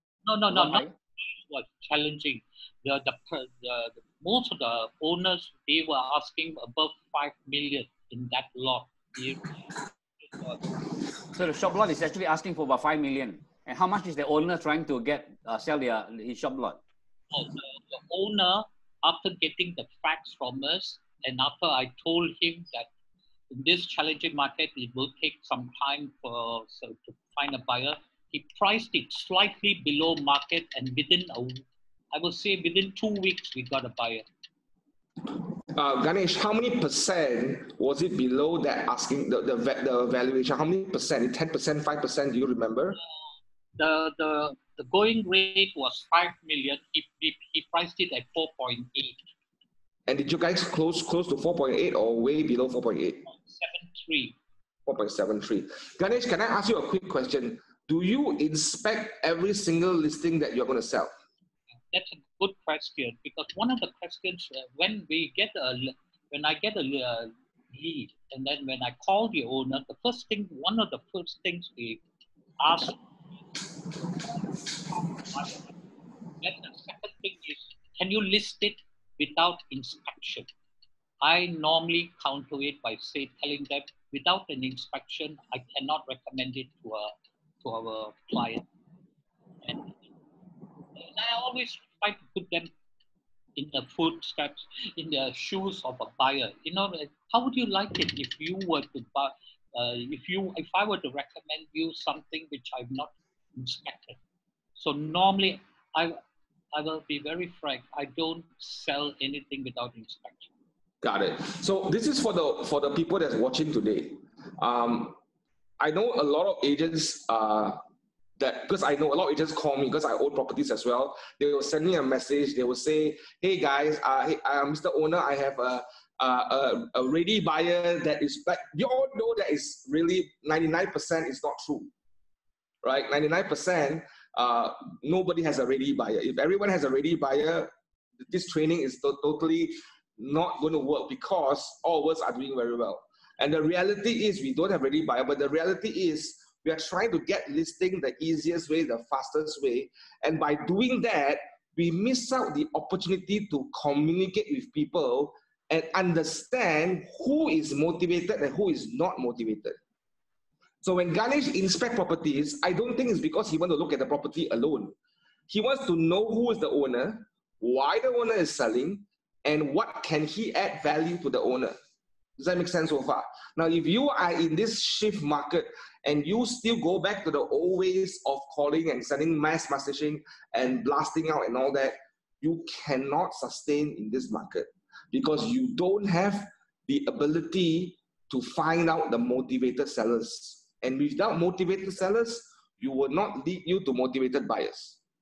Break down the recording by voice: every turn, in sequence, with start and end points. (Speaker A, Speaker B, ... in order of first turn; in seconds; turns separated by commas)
Speaker A: 0.2-10.6, Speaker B: 0.5-0.9, Speaker B: 11.3-16.8, Speaker A: 17.3-22.9, Speaker A: 23.5-34.2, Speaker C: 35.7-43.0, Speaker A: 43.8-49.2, Speaker C: 50.1-53.2, Speaker A: 53.3-54.4, Speaker C: 54.9-61.1, Speaker A: 61.9-72.0, Speaker A: 72.6-73.0, Speaker A: 73.5-75.7, Speaker A: 76.4-80.5, Speaker A: 81.2-87.1, Speaker A: 87.6-88.7, Speaker A: 89.6-90.0, Speaker A: 90.9-92.7, Speaker A: 93.5-104.2, Speaker A: 104.8-106.2, Speaker A: 106.7-110.5, Speaker C: 111.0-115.2, Speaker C: 115.8-117.8, Speaker C: 118.4-131.9, Speaker C: 132.8-159.8, Speaker C: 160.8-164.9, Speaker C: 165.5-171.8, Speaker C: 172.4-195.0